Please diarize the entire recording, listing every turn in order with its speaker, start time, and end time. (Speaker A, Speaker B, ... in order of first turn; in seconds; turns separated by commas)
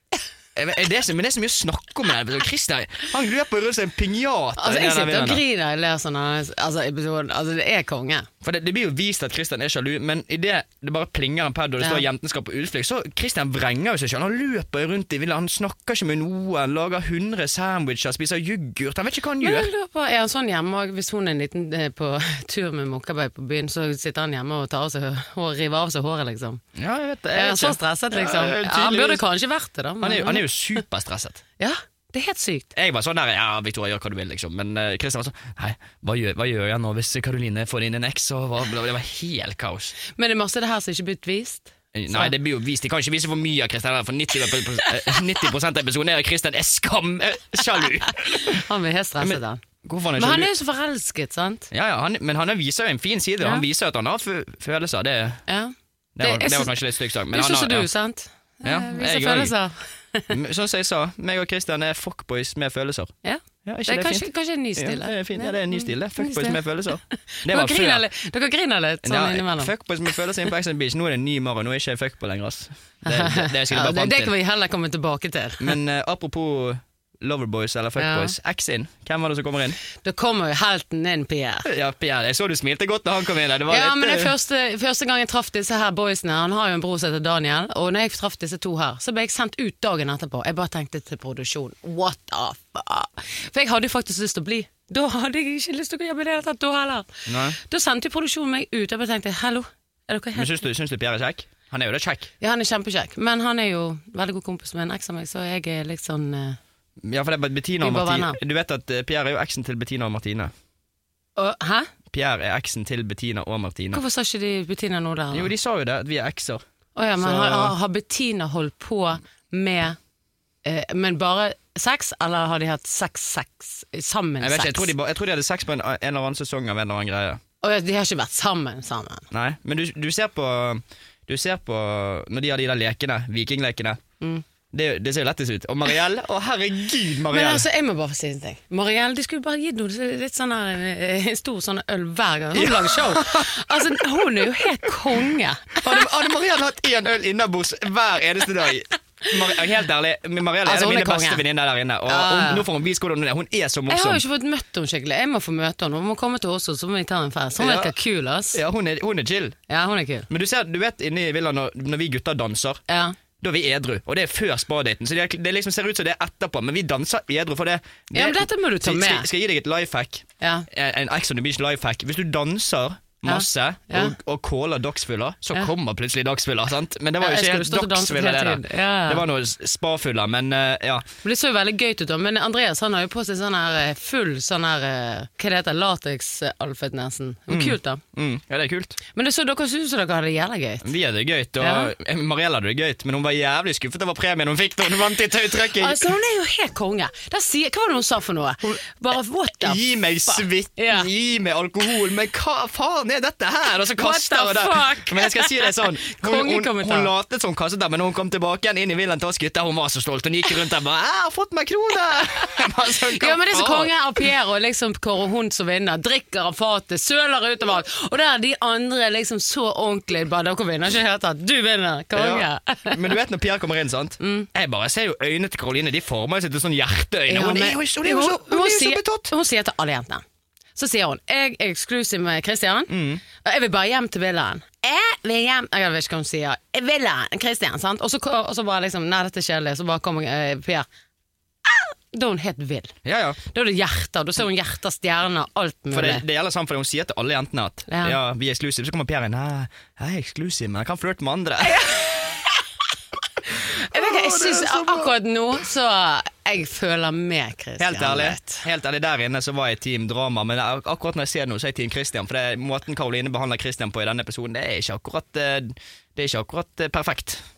Speaker A: 0.6-5.4, Speaker B: 4.6-8.3, Speaker A: 8.4-19.7, Speaker B: 19.4-26.6, Speaker A: 26.8-29.2, Speaker B: 27.3-30.4, Speaker A: 30.0-31.4, Speaker B: 31.6-32.7, Speaker A: 32.8-40.0, Speaker B: 40.1-42.3, Speaker A: 41.9-48.6, Speaker B: 48.4-49.6, Speaker A: 49.2-50.5, Speaker B: 50.2-51.7, Speaker A: 51.7-55.4, Speaker B: 55.5-56.7, Speaker A: 56.2-57.9, Speaker B: 57.3-60.3, Speaker A: 58.6-59.5, Speaker A: 60.3-63.1, Speaker B: 63.2-69.7, Speaker A: 63.6-68.0, Speaker A: 69.0-74.3, Speaker B: 73.0-75.8, Speaker A: 75.6-79.8, Speaker B: 78.0-78.3, Speaker B: 80.0-81.7, Speaker A: 81.7-84.3, Speaker B: 83.7-100.5, Speaker A: 97.3-97.6, Speaker A: 100.3-102.3, Speaker B: 102.4-106.6, Speaker A: 107.0-110.5, Speaker B: 107.8-108.4, Speaker B: 111.4-111.9, Speaker A: 112.1-114.0, Speaker B: 113.9-115.5, Speaker A: 115.3-116.6, Speaker B: 117.0-120.0, Speaker A: 117.2-117.8, Speaker B: 120.6-124.9, Speaker A: 124.4-127.4, Speaker B: 127.6-129.3, Speaker A: 129.3-134.0, Speaker A: 134.7-137.7, Speaker B: 137.3-146.0, Speaker A: 142.5-143.6, Speaker A: 145.8-154.2, Speaker B: 150.7-151.4, Speaker B: 152.1-152.7, Speaker B: 153.9-158.6, Speaker A: 157.6-157.9, Speaker A: 158.5-159.6, Speaker B: 159.7-160.3, Speaker A: 160.3-162.8, Speaker B: 162.9-163.2, Speaker A: 163.4-181.1, Speaker B: 168.1-169.3, Speaker B: 170.4-170.7, Speaker B: 173.2-174.2, Speaker B: 177.2-179.2, Speaker B: 181.2-188.0, Speaker A: 187.5-189.0, Speaker B: 189.1-190.9, Speaker A: 190.8-196.1, Speaker B: 191.6-191.9, Speaker B: 195.8-201.1, Speaker A: 199.6-213.9, Speaker B: 204.0-207.1, Speaker B: 213.2-223.0, Speaker A: 222.2-229.3, Speaker B: 224.2-224.5, Speaker B: 227.3-230.2, Speaker B: 230.8-240.9, Speaker A: 232.9-233.2, Speaker B: 241.7-242.9, Speaker A: 243.1-243.4, Speaker B: 243.5-246.2, Speaker A: 245.9-252.0, Speaker B: 247.9-248.2, Speaker B: 251.6-252.3, Speaker B: 253.6-258.6, Speaker A: 253.7-255.1, Speaker A: 257.8-267.4